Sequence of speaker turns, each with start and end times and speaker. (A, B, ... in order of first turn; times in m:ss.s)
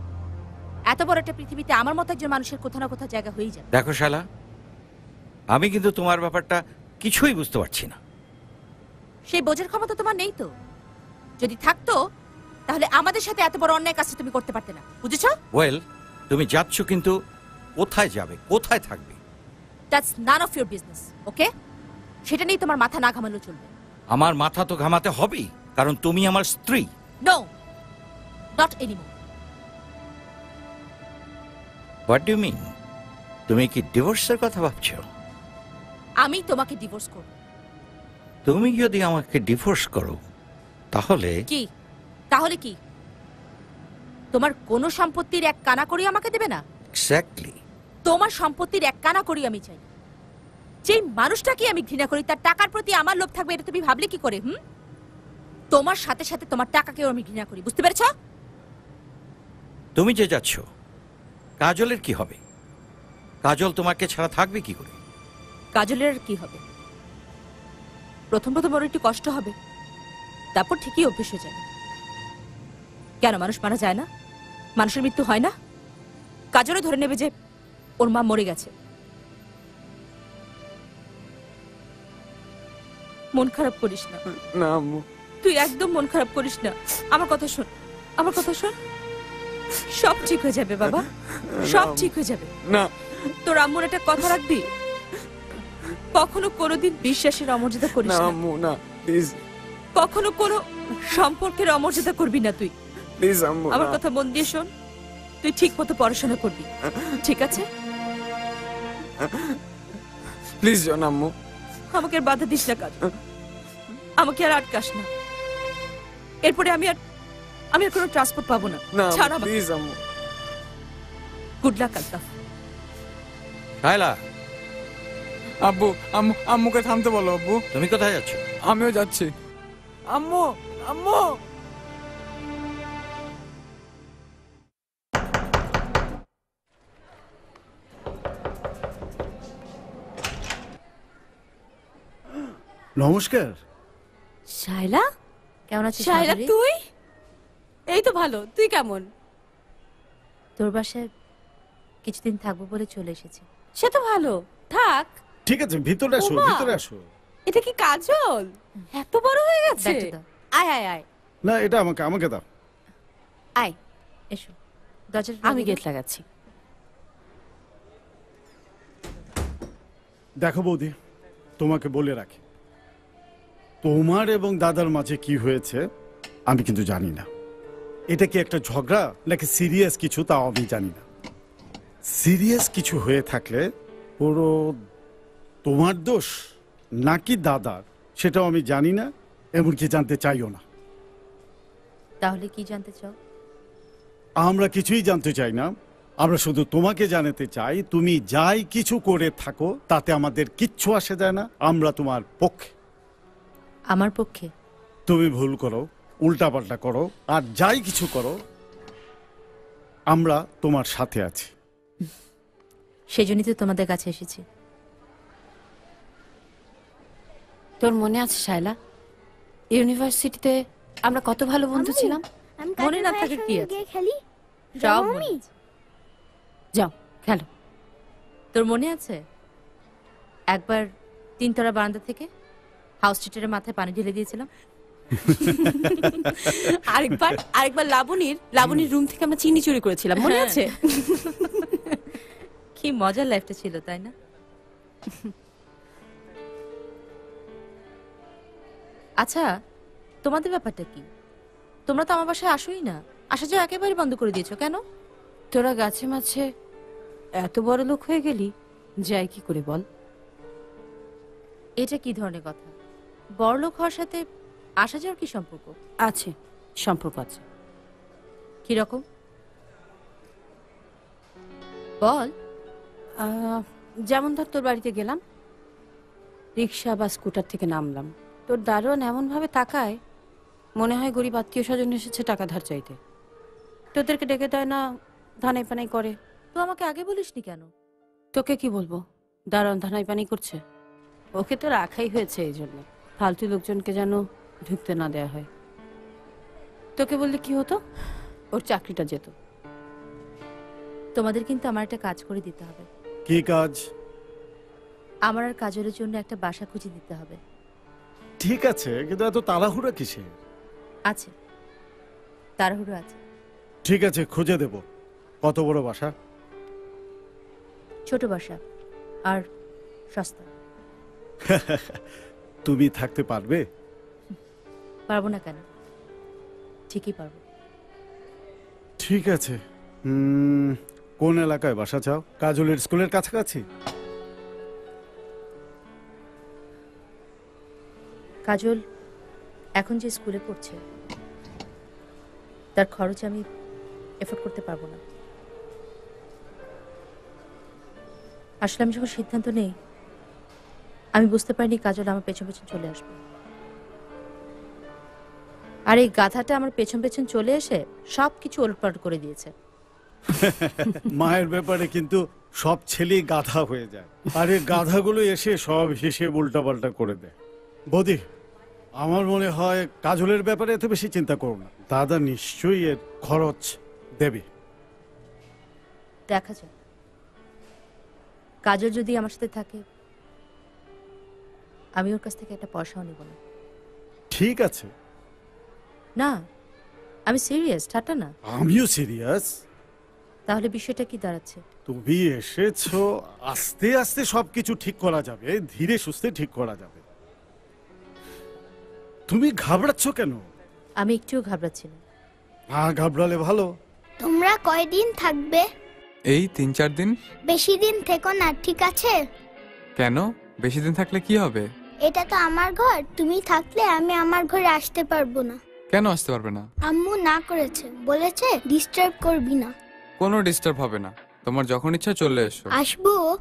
0:00.9-0:03.6 A
0:03.7-0:04.2 B
0:05.5-0:08.0 B
0:09.3-0:10.5 A
0:11.4-0:12.0 A
0:12.7-0:15.3 A
0:15.5-0:17.2 B
0:17.8-0:19.2 B
0:19.9-0:21.5 A
0:22.3-0:23.7 A
0:24.1-0:26.9 B
0:28.6-0:29.1 A
0:32.1-0:32.7 B
0:33.5-0:35.0 B
0:36.2-0:37.3 A
0:38.4-0:40.2 B
0:40.9-0:41.3 B
0:42.3-0:42.8 A
0:44.3-0:46.6 A
0:46.9-0:47.6 B
0:48.1-0:49.8 A
0:50.9-0:54.5 A
0:55.7-0:58.1 A
1:00.0-1:00.6 B
1:01.6-1:02.4 B
1:03.4-1:05.0 B
1:05.7-1:06.6 A
1:08.3-1:09.5 A
1:10.6-1:11.6 A
1:13.2-1:14.1 A
1:14.8-1:15.5 A
1:16.5-1:17.3 A
1:18.0-1:18.7 A
1:23.4-1:24.2 A
1:24.5-1:25.0 C
1:25.4-1:27.7 A
1:28.2-1:28.7 A
1:29.9-1:31.0 A
1:30.8-1:32.1 C
1:31.6-1:32.5 A
1:33.4-1:34.6 A
1:36.1-1:38.4 A
1:38.0-1:39.4 C
1:40.0-1:42.7 A
1:43.2-1:44.0 C
1:43.7-1:44.7 A
1:45.4-1:46.7 A
1:47.2-1:47.6 A
1:49.2-1:49.6 C
1:50.6-1:51.3 C
1:51.9-1:53.0 A
1:54.2-1:55.1 A
1:56.4-1:57.0 A
1:57.7-1:59.5 A
1:58.9-2:00.0 C
2:01.6-2:02.3 A
2:03.8-2:04.2 B
2:05.6-2:07.6 C
2:07.7-2:08.4 B
2:08.7-2:09.3 C
2:10.1-2:11.4 C
2:23.0-2:23.6 D
2:24.5-2:25.0 E
2:25.7-2:26.5 A
2:26.0-2:26.7 E
2:27.9-2:29.0 E
2:30.6-2:31.0 A
2:32.0-2:33.4 A
2:33.8-2:35.1 E
2:35.4-2:37.1 D
2:36.2-2:36.7 E
2:37.5-2:41.0 E
2:39.8-2:40.2 A
2:41.4-2:42.4 D
2:45.1-2:45.8 A
2:45.4-2:46.2 E
2:50.4-2:50.9 D
2:51.6-2:52.4 D
2:53.8-2:55.8 D
2:56.5-2:57.3 D
2:58.1-3:01.0 D
3:02.1-3:03.6 D
3:04.2-3:04.7 D
3:05.6-3:06.3 D
3:07.0-3:10.6 D
3:12.2-3:13.1 A
3:14.4-3:22.7 D
3:23.9-3:24.5 A
3:25.1-3:28.4 D
3:30.1-3:31.5 D
3:33.1-3:34.4 A
3:37.8-3:38.7 E
3:39.7-3:40.5 E
3:41.0-3:42.2 E
3:41.7-3:44.2 F
3:42.8-3:43.8 A
3:44.8-3:45.4 F
3:44.8-3:45.5 A
3:46.8-3:47.4 E
3:48.5-3:49.2 A
3:50.5-3:50.9 A
3:51.4-3:52.3 A
3:53.0-3:54.5 A
3:57.0-3:57.8 A
3:58.0-4:00.6 E
4:00.1-4:00.7 A
4:02.8-4:04.1 A
4:09.2-4:09.5 A
4:10.2-4:11.0 A
4:11.9-4:14.8 A
4:15.5-4:16.4 E
4:17.4-4:18.5 E
4:19.1-4:19.8 E
4:21.8-4:22.7 A
4:23.4-4:24.2 A
4:24.8-4:25.7 A
4:26.1-4:26.3 E
4:26.8-4:27.4 E
4:28.7-4:29.0 A
4:32.0-4:32.3 A
4:33.2-4:35.2 E
4:36.6-4:40.0 E
4:40.8-4:43.0 E
4:43.9-4:44.8 E
4:45.4-4:46.1 E
4:46.5-4:47.7 A
4:48.4-4:49.0 E
4:49.5-4:50.6 E
4:51.4-4:55.4 E
4:57.0-4:57.8 E
4:58.5-4:59.3 E
5:01.2-5:02.9 A
5:03.3-5:03.8 D
5:05.3-5:07.4 A
5:08.4-5:10.4 D
5:12.6-5:13.2 A
5:13.8-5:14.8 D
5:15.4-5:16.1 D
5:18.1-5:18.6 A
5:20.1-5:20.5 A
5:21.5-5:22.0 D
5:22.6-5:23.6 D
5:25.1-5:25.6 A
5:26.9-5:27.4 A
5:29.0-5:33.6 D
5:38.5-5:38.8 A
5:39.8-5:40.8 A
5:42.8-5:43.4 A
5:44.2-5:45.0 A
5:48.6-5:49.7 A
5:51.2-5:53.2 A
5:55.9-5:59.5 A
6:00.4-6:07.3 D
6:07.9-6:08.2 D
6:09.0-6:14.4 D
6:16.3-6:16.7 A
6:18.7-6:19.8 A
6:22.0-6:23.4 A
6:24.3-6:24.9 D
6:27.3-6:28.3 A
6:28.5-6:29.5 D
6:30.5-6:31.6 A
6:31.8-6:37.0 D
6:39.3-6:40.4 D
6:41.0-6:42.0 A
6:42.7-6:43.7 D
6:44.2-6:45.6 F
6:46.3-6:47.1 C
6:47.5-6:49.2 F
6:50.0-6:51.6 C
6:52.0-6:55.6 F
6:55.9-6:56.7 C
6:56.8-6:59.7 F
7:00.2-7:02.7 C
7:02.7-7:03.2 F